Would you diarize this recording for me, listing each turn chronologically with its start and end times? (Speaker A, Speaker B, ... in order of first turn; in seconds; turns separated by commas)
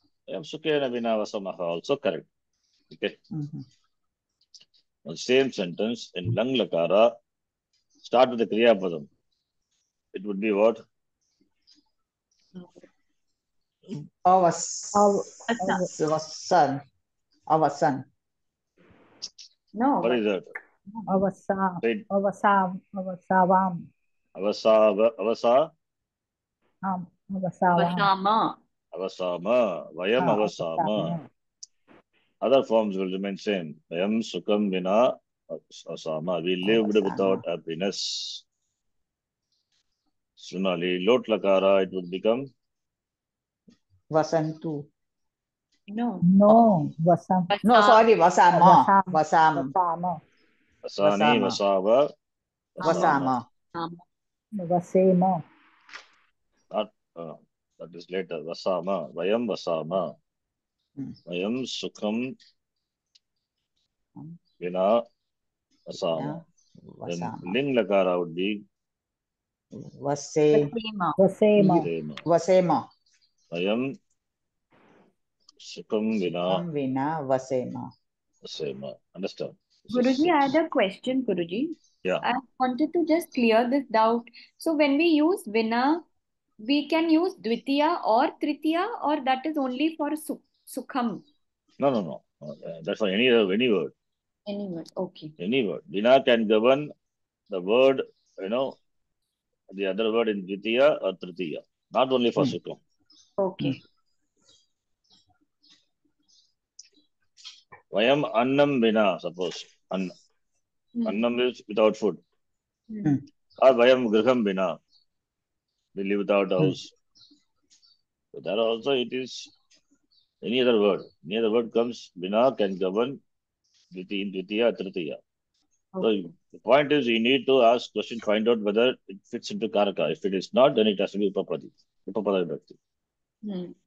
Speaker A: 0.3-2.3, Speaker A: 2.9-3.2, Speaker B: 3.3-3.7, Speaker A: 5.0-7.1, Speaker A: 8.0-9.1, Speaker A: 10.1-10.8, Speaker C: 12.6-12.8, Speaker B: 14.2-15.3, Speaker D: 14.9-15.9, Speaker C: 15.5-15.9, Speaker B: 15.8-16.8, Speaker B: 17.5-18.1, Speaker C: 19.7-20.2, Speaker A: 20.0-20.5, Speaker D: 21.1-23.9, Speaker A: 24.4-25.7, Speaker D: 26.9-28.1, Speaker C: 27.8-28.6, Speaker A: 28.9-31.2, Speaker D: 30.2-31.3, Speaker A: 32.4-38.4, Speaker B: 36.6-37.4, Speaker A: 40.4-42.5, Speaker B: 44.1-44.8, Speaker C: 45.9-46.2, Speaker D: 46.2-47.5, Speaker C: 47.5-48.0, Speaker B: 47.6-49.7, Speaker D: 48.5-50.2, Speaker A: 50.9-52.1, Speaker B: 51.0-51.6, Speaker A: 52.8-53.3, Speaker C: 52.8-53.2, Speaker B: 52.8-53.5, Speaker C: 53.7-54.0, Speaker D: 54.6-55.4, Speaker A: 56.7-60.1, Speaker A: 61.3-62.3, Speaker A: 64.6-65.0, Speaker A: 65.9-66.4, Speaker B: 66.0-67.6, Speaker A: 67.0-68.6, Speaker B: 69.7-70.7, Speaker C: 70.5-71.2, Speaker D: 71.2-71.9, Speaker B: 71.6-72.8, Speaker A: 71.6-72.2, Speaker A: 73.5-73.9, Speaker A: 75.6-76.6, Speaker B: 76.2-77.9, Speaker A: 78.4-80.5, Speaker C: 79.9-86.0, Speaker C: 86.6-91.2, Speaker A: 91.8-93.9, Speaker C: 94.5-95.3, Speaker A: 95.4-96.9, Speaker A: 97.5-98.7, Speaker A: 99.7-102.8, Speaker C: 103.4-103.8, Speaker A: 107.9-110.1, Speaker C: 111.0-111.2, Speaker A: 111.0-112.2, Speaker C: 112.9-113.2, Speaker A: 113.6-114.8, Speaker A: 116.0-116.9, Speaker A: 118.3-119.5, Speaker A: 120.4-123.2, Speaker A: 123.9-125.2, Speaker C: 125.9-126.3, Speaker A: 126.0-132.8, Speaker C: 133.4-133.7